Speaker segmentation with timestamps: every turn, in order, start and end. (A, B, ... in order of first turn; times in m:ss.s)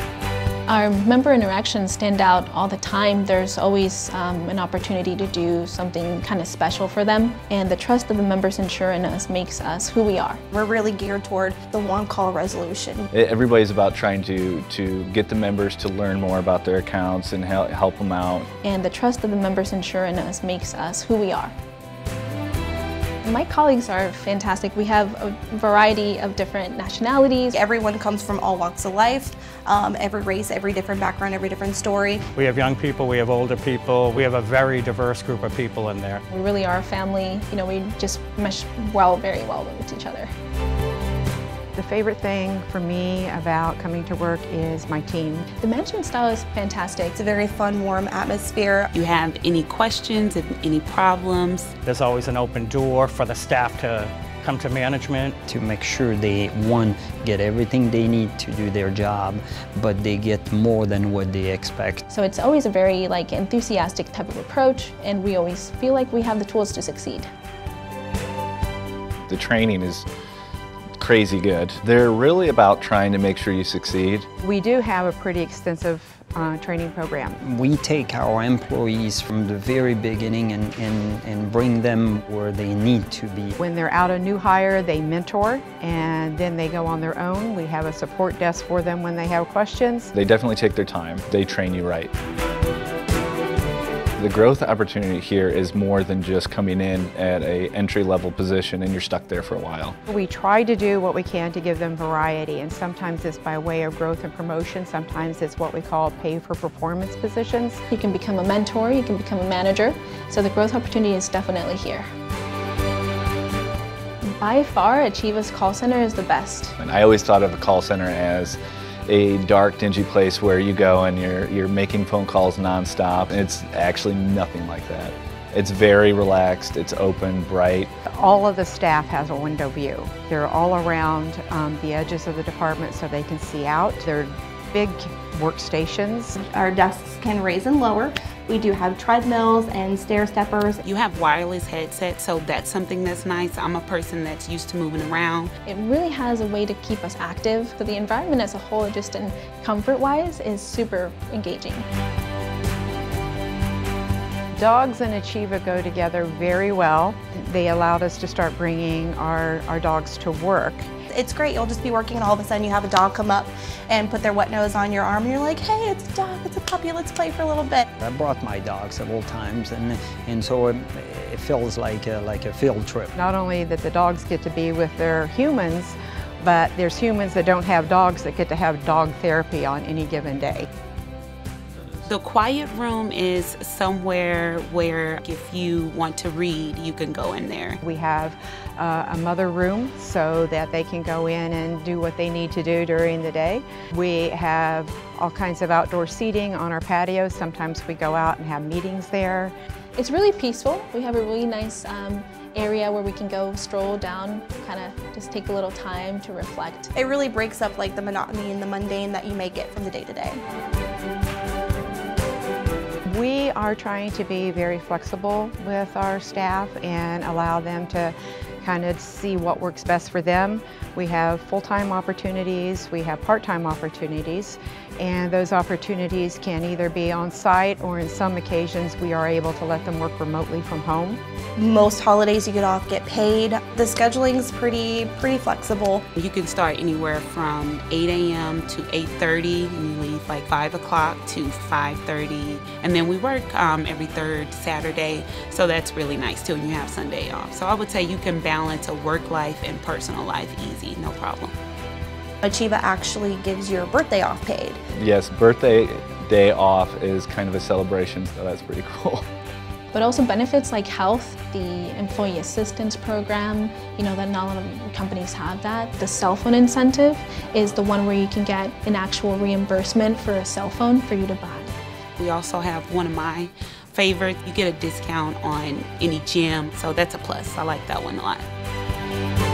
0:00.7-0:10.4 A
0:10.5-0:13.1 B
0:13.1-0:18.5 C
0:18.6-0:21.5 A
0:23.2-0:27.6 A
0:27.5-0:32.2 B
0:32.4-0:36.2 D
0:36.3-0:40.3 A
0:41.8-0:45.5 E
0:45.6-0:47.2 A
0:47.2-0:48.9 B
0:48.9-0:51.7 F
0:51.9-0:55.4 D
0:55.5-1:02.0 G
1:02.1-1:07.3 A
1:09.3-1:10.1 C
1:11.0-1:14.3 C
1:14.4-1:17.4 E
1:17.4-1:23.5 G
1:23.6-1:30.1 E
1:30.1-1:32.1 C
1:34.2-1:40.0 C
1:40.1-1:47.8 E
1:47.9-1:52.1 A
1:54.2-1:56.8 A
1:56.8-2:07.9 C
2:08.1-2:16.3 E
2:16.4-2:20.8 B
2:20.8-2:25.5 F
2:25.7-2:31.9 A
2:34.6-2:40.9 E
2:41.1-2:47.8 B
2:48.0-2:53.1 G
2:53.2-3:00.7 E
3:02.1-3:07.8 F
3:07.8-3:19.5 E
3:20.0-3:26.9 A
3:27.0-3:30.4 B
3:33.1-3:51.2 E
3:51.6-3:56.0 B
3:56.2-4:11.5 F
4:12.4-4:14.8 B
4:15.0-4:19.2 C
4:19.9-4:31.7 A
4:32.2-4:38.4 F